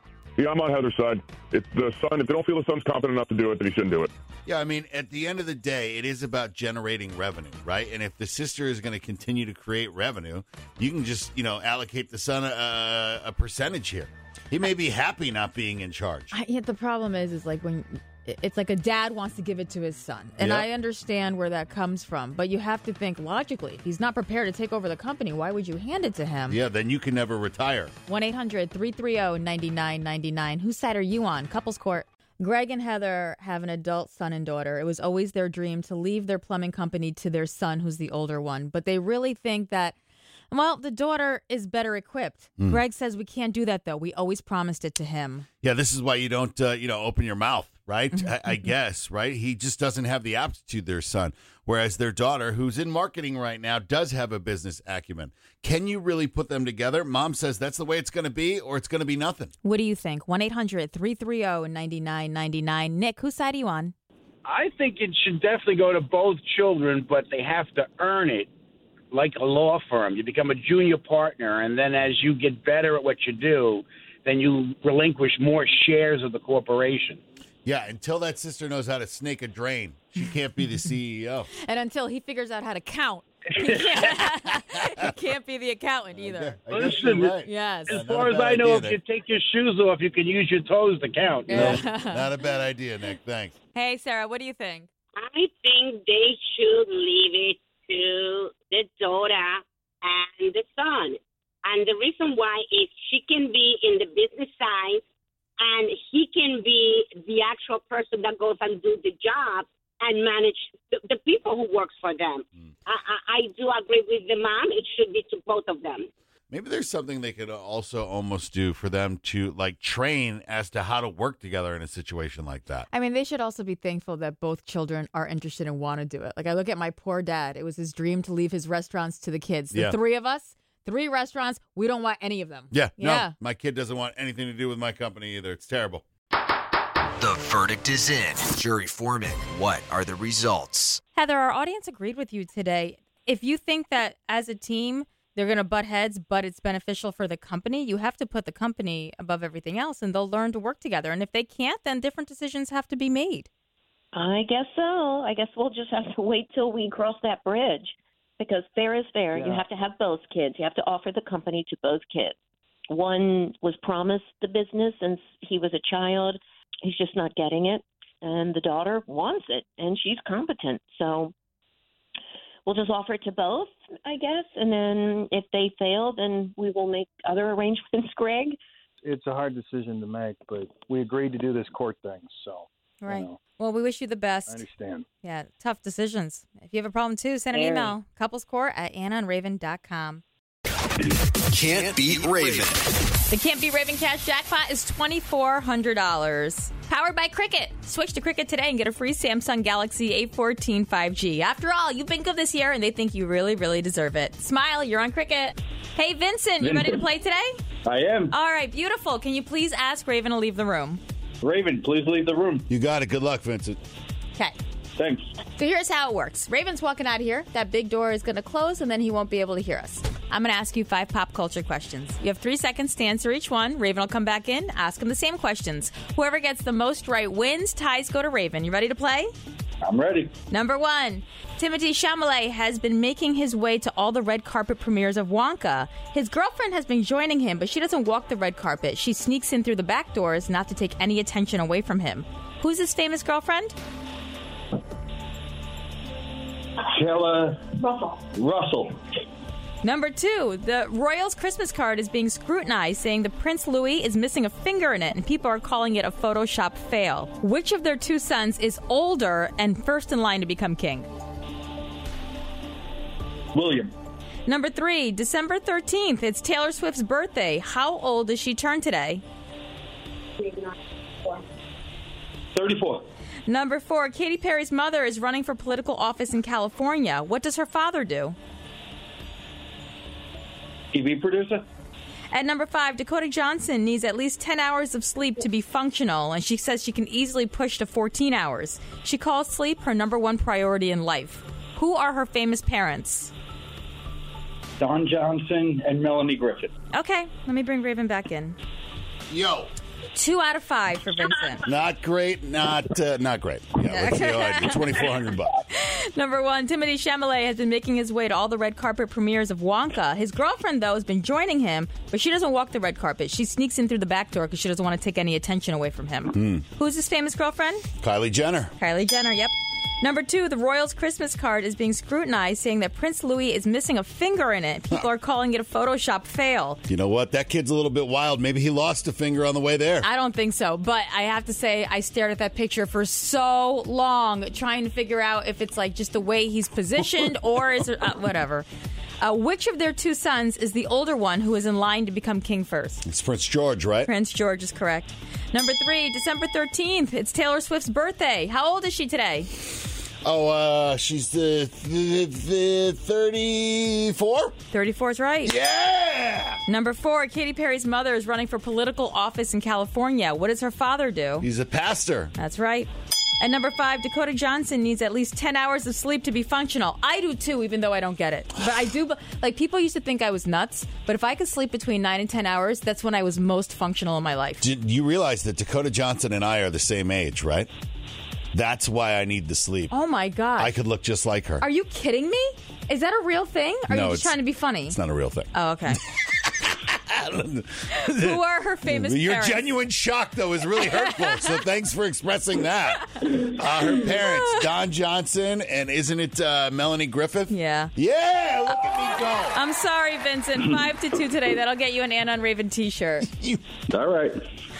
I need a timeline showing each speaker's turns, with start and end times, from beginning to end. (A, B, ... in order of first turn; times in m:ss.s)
0:00.4-0:04.1 A
0:04.5-0:16.3 B
0:16.3-0:26.6 C
0:20.4-0:20.7 B
0:26.5-0:27.9 B
0:28.1-0:40.0 C
0:40.5-0:45.5 C
0:45.6-0:59.5 B
0:48.1-0:48.6 C
0:59.6-1:03.9 C
1:04.5-1:08.5 D
1:09.1-1:17.2 D
1:17.6-1:21.5 B
1:21.6-1:26.6 C
1:26.1-1:29.0 B
1:26.7-1:27.4 D
1:27.1-1:28.1 C
1:27.9-1:31.8 D
1:31.5-1:32.3 C
1:31.5-1:33.6 B
1:33.7-1:34.9 C
1:35.2-1:45.0 E
1:45.6-1:56.1 E
1:56.5-2:02.9 B
2:02.9-2:13.3 C
2:12.7-2:16.0 B
2:18.4-2:20.5 F
2:21.2-2:33.5 C
2:34.1-2:42.4 G
2:39.4-2:39.6 H
2:42.9-2:51.3 G
2:52.7-2:58.6 G
2:59.0-3:03.4 H
3:03.0-3:04.6 C
3:04.5-3:05.0 H
3:05.2-3:10.2 C
3:11.5-3:12.8 F
3:13.3-3:27.6 C
3:26.6-3:27.0 I
3:27.8-3:28.3 I
3:28.3-3:31.0 C
3:31.4-3:32.7 I
3:32.7-3:33.8 B
3:35.0-3:35.2 I
3:35.6-3:49.3 C
3:49.8-3:50.3 I
3:50.5-4:03.8 C
4:06.8-4:07.8 I
4:08.3-4:09.0 I
4:09.8-4:21.1 C
4:23.5-4:23.9 I
4:24.5-4:29.2 C
4:32.5-4:33.0 I
4:33.5-4:38.4 C
4:40.9-4:41.6 I
4:42.3-4:53.3 C
4:54.8-4:56.7 I
4:56.9-4:58.6 C
4:59.3-4:59.7 B
5:00.1-5:01.7 C
5:01.6-5:05.5 B
5:03.8-5:05.1 C
5:05.7-5:17.9 C
5:16.3-5:16.6 B
5:18.0-5:18.7 B
5:18.8-5:26.8 C
5:26.9-5:30.1 B
5:30.0-5:38.7 C
5:39.2-5:43.0 C
5:43.0-5:44.1 B
5:44.1-5:49.5 C
5:50.2-5:54.6 B
5:54.7-5:55.6 C
5:55.4-5:56.6 B
5:56.7-6:01.5 C
6:01.4-6:02.3 B
6:02.4-6:02.9 C
6:03.4-6:14.6 C
6:14.6-6:17.7 B
6:18.5-6:19.9 B
6:19.9-6:20.8 C
6:20.6-6:21.6 B
6:21.6-6:25.0 C
6:23.9-6:24.4 B
6:24.9-6:25.9 B
6:25.5-6:26.0 C
6:26.4-6:39.6 B
6:27.9-6:29.7 C
6:30.8-6:31.6 C
6:33.9-6:34.6 C
6:37.5-6:37.9 C
6:38.9-6:43.3 C
6:43.9-6:44.4 I